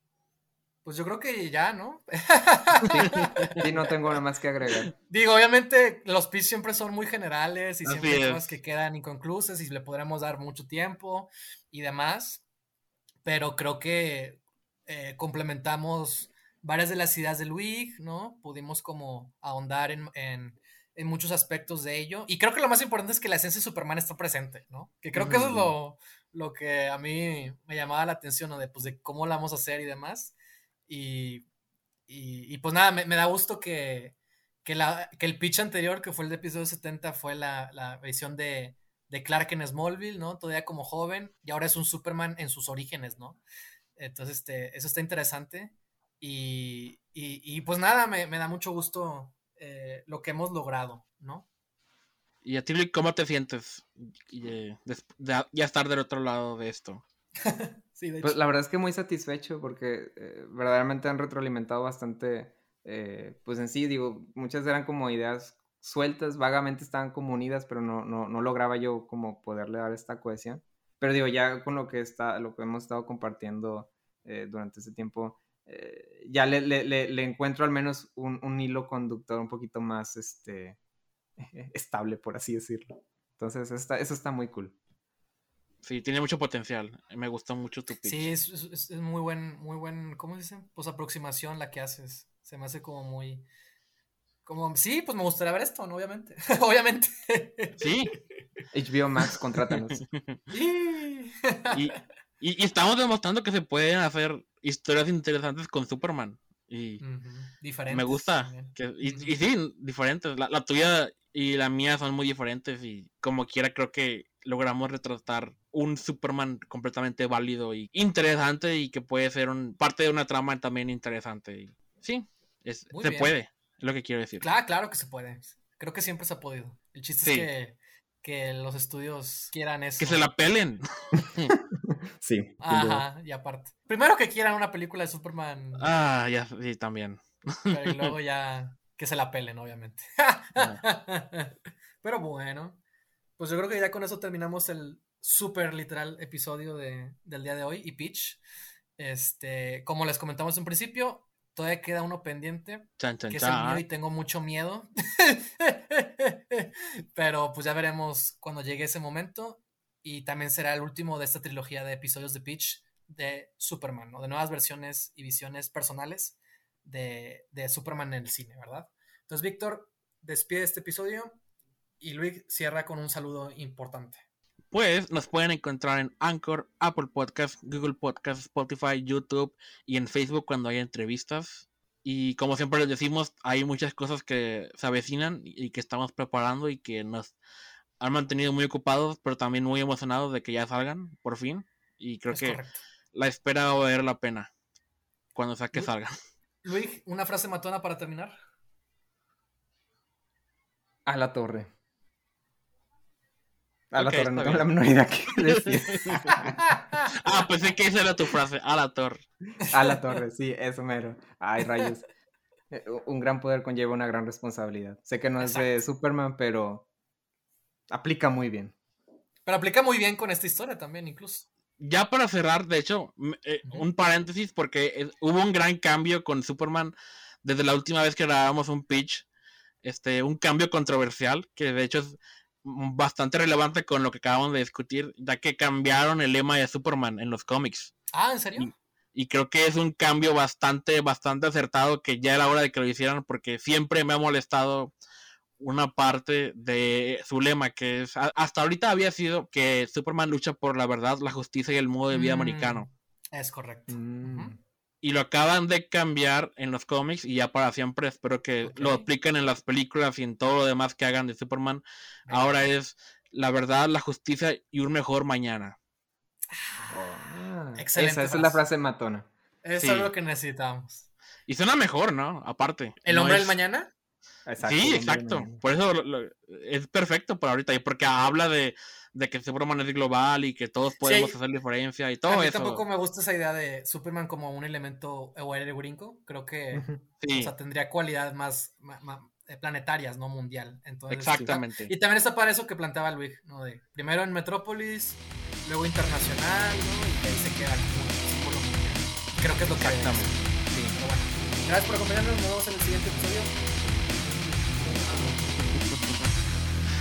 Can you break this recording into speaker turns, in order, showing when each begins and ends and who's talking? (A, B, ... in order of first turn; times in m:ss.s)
0:00.8-0:04.2 A
0:02.9-0:04.9 B
0:03.0-0:03.6 C
0:04.9-0:12.4 A
0:07.8-0:08.4 C
0:13.2-0:30.3 A
0:25.1-0:25.7 B
0:30.9-0:31.4 A
0:32.1-0:43.4 A
0:44.0-0:51.4 A
0:52.4-0:57.0 C
0:57.4-0:58.4 A
0:58.2-1:20.8 B
1:21.4-1:24.7 B
1:25.8-1:28.3 C
1:28.0-1:33.4 A
1:34.4-1:37.9 A
1:37.8-1:38.1 C
1:38.7-1:40.0 B
1:40.0-1:40.4 C
1:40.5-1:41.9 A
1:41.7-1:47.0 C
1:47.0-1:49.3 A
1:47.9-2:04.5 C
2:02.9-2:03.3 A
2:04.4-2:10.2 A
2:07.2-2:07.5 C
2:10.0-2:11.5 C
2:12.2-2:13.0 B
2:12.6-2:15.9 A
2:15.8-2:18.1 C
2:17.7-2:22.8 A
2:20.6-2:20.8 C
2:23.4-2:28.4 A
2:29.0-2:51.3 A
2:33.0-2:33.8 C
2:52.0-2:54.2 A
2:54.7-3:07.4 C
3:08.0-3:12.6 C
3:12.3-3:12.8 A
3:13.1-3:14.5 C
3:15.3-3:16.2 C
3:16.6-3:18.4 A
3:21.0-3:21.7 B
3:23.9-3:26.6 B
3:24.0-3:24.7 C
3:25.6-3:26.3 C
3:26.3-3:27.2 A
3:27.1-3:29.2 C
3:29.6-3:32.0 B
3:29.7-3:30.1 A
3:32.7-3:36.8 B
3:35.4-3:35.8 A
3:37.9-3:38.7 B
3:39.4-3:41.5 A
3:41.8-3:49.3 C
3:49.8-3:57.9 C
3:58.1-3:58.7 A
3:58.6-4:04.9 C
4:05.6-4:12.9 C
4:12.1-4:14.6 A
4:13.9-4:14.5 B
4:15.0-4:25.8 C
4:18.6-4:19.1 A
4:22.3-4:22.7 A
4:26.5-4:27.0 A
4:26.9-4:29.3 B
4:27.8-4:28.6 A
4:29.6-4:31.1 A
4:29.8-4:30.1 C
4:31.5-4:33.6 C
4:33.0-4:33.9 A
4:34.4-4:35.6 B
4:34.6-4:42.8 C
4:41.0-4:41.3 A
4:42.3-5:03.6 A
4:46.7-4:47.0 B
4:47.2-4:47.5 C
4:51.1-4:51.9 C
4:59.7-5:00.9 C
5:04.7-5:05.4 A
5:05.6-5:06.3 C